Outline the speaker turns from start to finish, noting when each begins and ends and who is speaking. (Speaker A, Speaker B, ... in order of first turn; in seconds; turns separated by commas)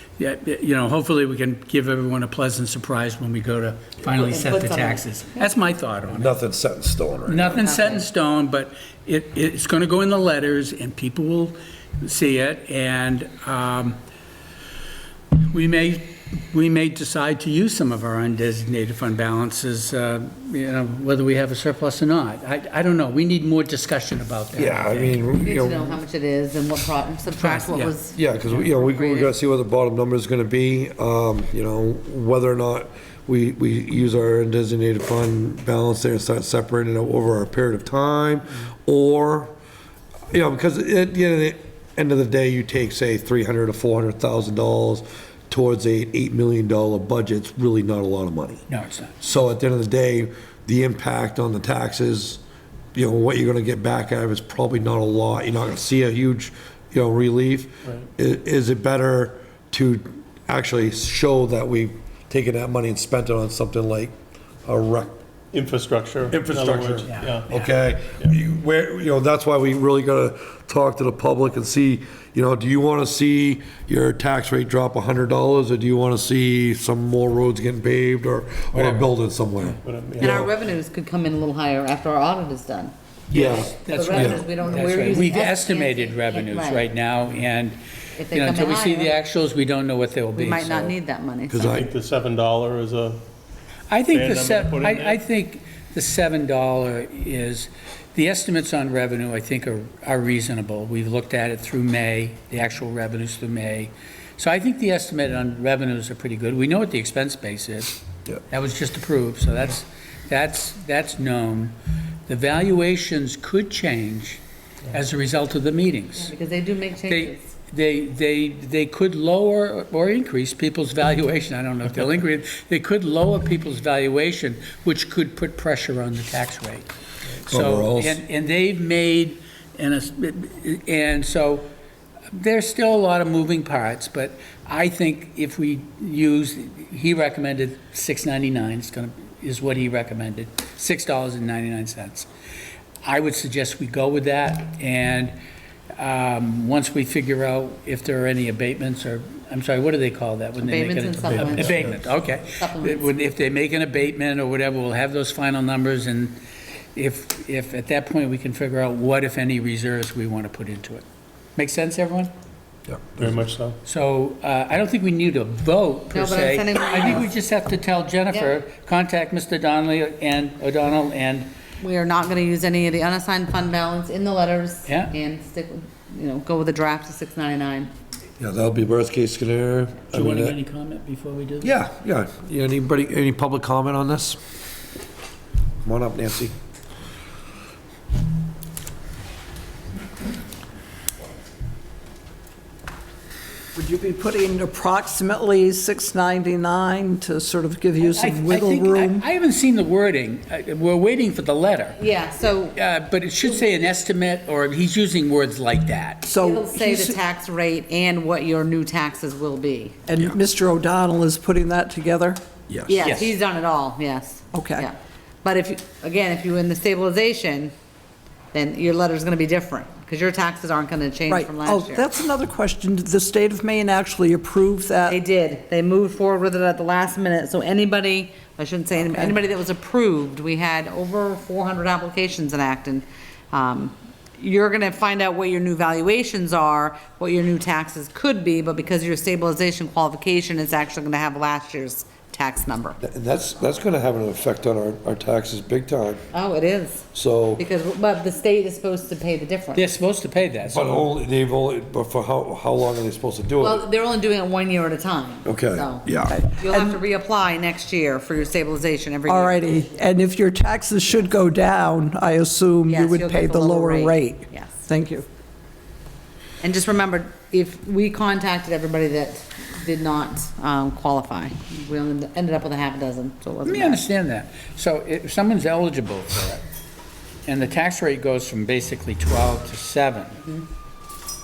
Speaker A: 0.2-6.3, Speaker B: 4.0-5.0, Speaker C: 6.2-7.6, Speaker A: 7.3-14.0, Speaker B: 7.5-8.0, Speaker A: 15.4-25.2, Speaker C: 24.5-26.0, Speaker B: 25.3-29.3, Speaker A: 27.4-27.9, Speaker C: 28.1-39.5, Speaker C: 40.3-48.6, Speaker A: 48.7-49.1, Speaker C: 49.2-52.4, Speaker C: 52.9-64.1, Speaker C: 64.6-65.1, Speaker D: 65.5-67.5, Speaker C: 66.3-80.5, Speaker A: 67.1-67.7, Speaker D: 78.7-79.0, Speaker D: 79.8-80.4, Speaker B: 80.2-82.9, Speaker A: 83.3-87.8, Speaker C: 83.3-84.5, Speaker B: 83.9-86.9, Speaker B: 88.2-89.1, Speaker A: 88.3-90.9, Speaker B: 90.3-91.8, Speaker C: 91.5-91.9, Speaker D: 91.7-93.2, Speaker A: 93.9-108.0, Speaker D: 94.1-95.2, Speaker A: 108.5-111.8, Speaker A: 112.3-116.3, Speaker B: 116.2-117.4, Speaker A: 117.1-126.9, Speaker C: 127.5-128.2, Speaker A: 127.5-131.7, Speaker A: 132.3-142.3, Speaker A: 143.0-145.3, Speaker A: 145.9-156.4, Speaker B: 150.6-152.0, Speaker D: 151.2-152.0, Speaker B: 152.5-153.1, Speaker A: 156.9-161.0, Speaker A: 161.6-162.3, Speaker D: 163.2-163.8, Speaker A: 163.8-171.5, Speaker B: 166.1-167.3, Speaker B: 171.8-177.9, Speaker A: 174.9-175.1, Speaker C: 178.4-180.6, Speaker A: 180.1-181.7, Speaker C: 181.6-184.4, Speaker C: 185.8-186.5, Speaker E: 193.7-199.2, Speaker A: 198.0-202.0, Speaker B: 201.9-202.8, Speaker A: 202.7-206.3, Speaker E: 206.2-207.2, Speaker B: 206.4-210.0, Speaker E: 210.1-212.4, Speaker C: 212.7-213.1, Speaker B: 212.9-217.7, Speaker A: 213.0-213.3, Speaker E: 214.5-214.9, Speaker B: 218.5-222.1, Speaker E: 221.3-225.2, Speaker B: 225.1-243.0, Speaker C: 243.0-246.2, Speaker B: 246.3-247.1, Speaker C: 247.1-247.6, Speaker B: 247.6-249.9, Speaker A: 249.7-251.1, Speaker C: 250.7-253.8, Speaker B: 253.6-256.0, Speaker C: 255.4-256.4, Speaker E: 256.3-256.9, Speaker B: 256.6-259.6, Speaker E: 259.3-265.2, Speaker B: 262.9-264.8, Speaker B: 266.6-274.0, Speaker A: 273.6-276.6, Speaker A: 277.4-280.4